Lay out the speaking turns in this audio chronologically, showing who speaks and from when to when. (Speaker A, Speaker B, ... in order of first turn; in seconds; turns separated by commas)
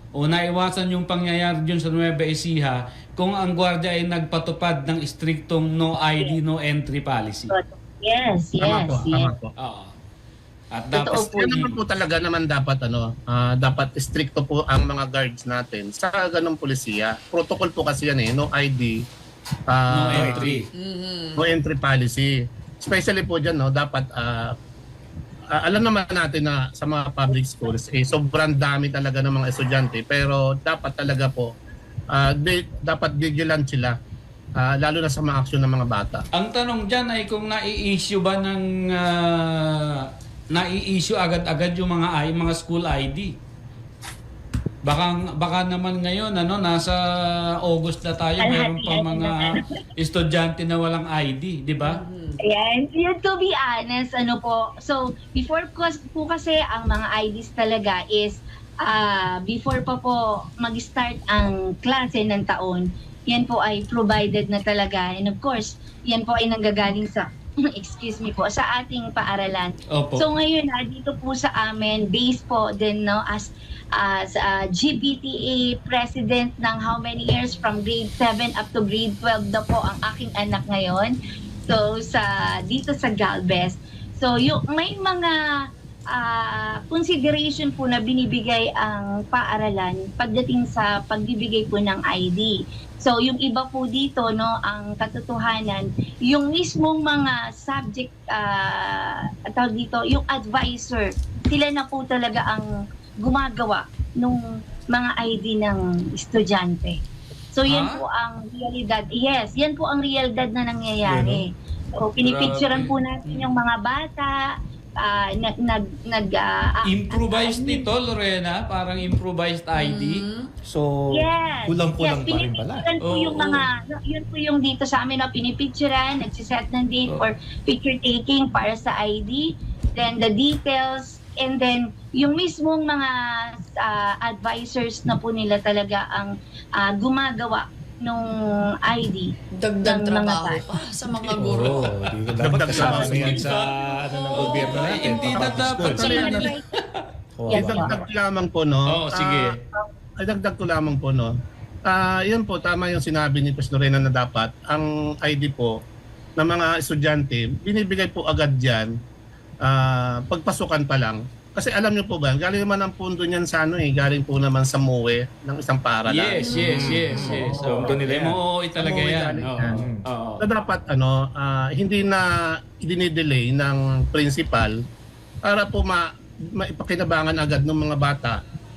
Speaker A: 0.1-7.5, Speaker B: 7.5-9.3, Speaker C: 8.6-9.5, Speaker A: 9.6-9.9, Speaker A: 10.7-11.7, Speaker B: 10.9-11.6, Speaker C: 11.3-19.0, Speaker C: 19.7-20.6, Speaker A: 19.9-20.7, Speaker D: 20.1-20.6, Speaker E: 20.7-21.5, Speaker C: 21.4-24.5, Speaker C: 25.5-31.5, Speaker C: 32.1-33.9, Speaker C: 34.6-36.2, Speaker A: 36.3-40.0, Speaker A: 40.5-43.3, Speaker A: 44.8-47.0, Speaker A: 47.6-52.0, Speaker B: 48.4-49.6, Speaker E: 51.8-52.4, Speaker B: 52.4-81.2, Speaker A: 69.9-70.2, Speaker B: 81.7-85.4, Speaker B: 86.1-102.6, Speaker B: 103.2-107.0, Speaker B: 107.5-111.5, Speaker A: 107.7-108.0, Speaker D: 111.0-111.4, Speaker B: 112.0-117.9, Speaker A: 112.2-113.5, Speaker A: 116.8-120.2, Speaker E: 119.7-120.5, Speaker D: 120.6-122.9, Speaker B: 121.1-139.3, Speaker A: 123.0-123.7, Speaker E: 139.5-141.9, Speaker B: 139.8-140.7, Speaker D: 141.3-146.4, Speaker C: 142.4-143.4, Speaker B: 142.7-143.5, Speaker A: 142.7-143.7, Speaker E: 143.6-145.7, Speaker A: 144.3-147.0, Speaker C: 145.3-146.5, Speaker B: 145.9-146.6, Speaker D: 147.4-147.9, Speaker B: 147.5-148.0, Speaker C: 147.5-149.6, Speaker A: 148.9-149.6, Speaker C: 150.2-151.3, Speaker C: 151.8-155.7, Speaker C: 156.4-158.9, Speaker C: 159.6-166.5, Speaker A: 166.1-170.4, Speaker E: 166.4-167.7, Speaker D: 166.5-168.4, Speaker C: 168.8-169.8, Speaker D: 169.6-170.0, Speaker C: 170.4-174.8, Speaker C: 175.4-178.4